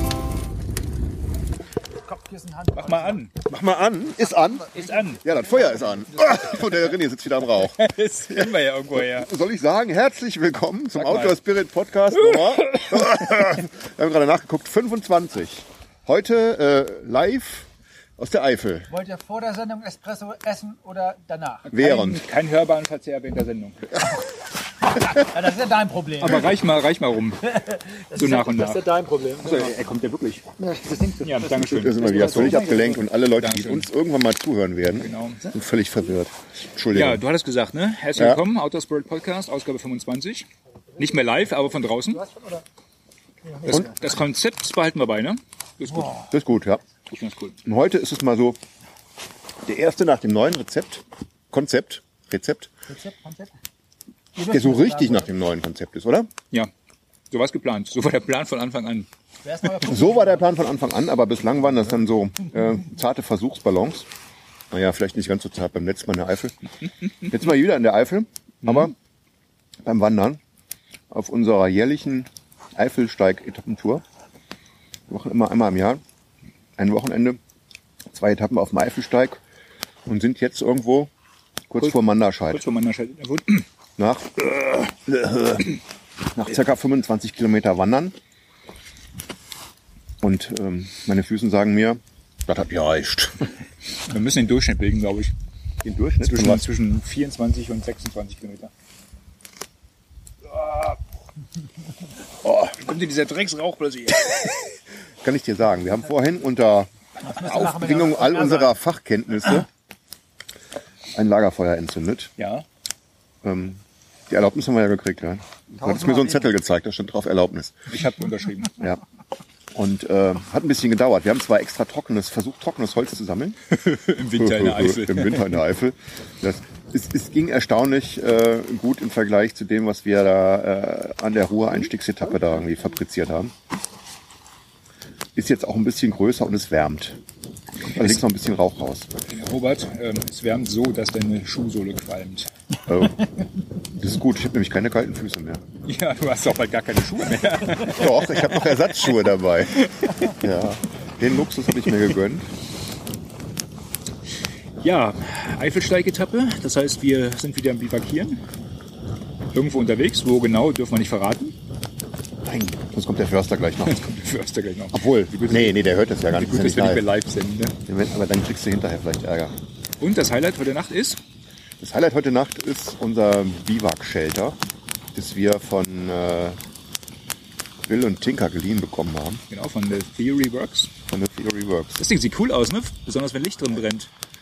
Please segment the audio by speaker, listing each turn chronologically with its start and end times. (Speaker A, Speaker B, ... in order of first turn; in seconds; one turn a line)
Speaker A: 2.0-3.2
Speaker B: 2.7-3.3
Speaker C: 3.5-4.7
Speaker A: 4.3-6.8
Speaker B: 4.7-5.2
Speaker C: 5.2-18.9
Speaker B: 7.5-9.3
Speaker B: 10.9-11.4
Speaker B: 12.6-12.9
Speaker A: 18.9-21.7
Speaker B: 21.6-23.9
Speaker C: 21.7-22.2
Speaker A: 25.1-26.5
Speaker B: 26.2-27.5
Speaker A: 27.4-29.9
Speaker B: 28.1-28.8
Speaker B: 29.4-30.4
Speaker A: 30.6-33.1
Speaker B: 31.2-32.7
Speaker C: 31.6-37.2
Speaker B: 33.4-33.9
Speaker B: 34.9-35.5
Speaker B: 36.9-40.5
Speaker C: 38.1-38.4
Speaker A: 40.9-42.6
Speaker B: 41.0-42.2
Speaker A: 43.4-44.1
Speaker B: 43.6-46.3
Speaker C: 46.3-46.8
Speaker B: 47.1-47.6
Speaker C: 47.6-48.6
Speaker C: 49.6-52.7
Speaker A: 52.9-53.5
Speaker A: 54.3-55.3
Speaker C: 54.4-56.3
Speaker B: 57.3-59.1
Speaker A: 59.4-60.5
Speaker C: 59.9-64.1
Speaker C: 64.7-66.5
Speaker C: 67.2-68.9
Speaker B: 68.6-68.9
Speaker C: 69.8-70.4
Speaker C: 71.1-74.0
Speaker C: 75.1-76.0
Speaker C: 76.8-77.4
Speaker C: 78.1-79.4
Speaker C: 80.0-81.1
Speaker C: 81.7-82.6
Speaker B: 81.8-83.6
Speaker C: 84.0-85.8
Speaker C: 86.3-88.1
Speaker C: 90.2-93.5
Speaker B: 94.1-95.3
Speaker C: 95.8-96.7
Speaker B: 96.2-98.7
Speaker B: 100.5-101.0
Speaker C: 102.4-102.8
Speaker B: 102.8-104.6
Speaker C: 105.2-109.7
Speaker A: 107.2-108.7
Speaker C: 111.1-112.3
Speaker B: 112.4-112.6
Speaker C: 113.4-117.9
Speaker A: 115.8-116.2
Speaker B: 117.9-118.7
Speaker C: 119.7-123.6
Speaker B: 123.7-125.6
Speaker C: 124.3-133.5
Speaker C: 135.3-137.2
Speaker B: 137.9-138.2
Speaker C: 137.9-139.1
Speaker B: 139.3-142.5
Speaker C: 142.9-143.2
Speaker C: 143.9-145.6
Speaker B: 145.8-149.1
Speaker C: 147.7-152.5
Speaker B: 149.8-150.3
Speaker B: 154.8-158.4
Speaker B: 159.5-161.6
Speaker C: 162.4-164.0
Speaker B: 163.8-167.8
Speaker C: 164.9-167.1
Speaker C: 167.9-169.6
Speaker B: 170.0-171.2
Speaker C: 171.8-174.6
Speaker C: 175.1-176.6
Speaker C: 177.9-179.4
Speaker B: 179.5-180.9
Speaker C: 181.1-182.0
Speaker B: 182.0-184.1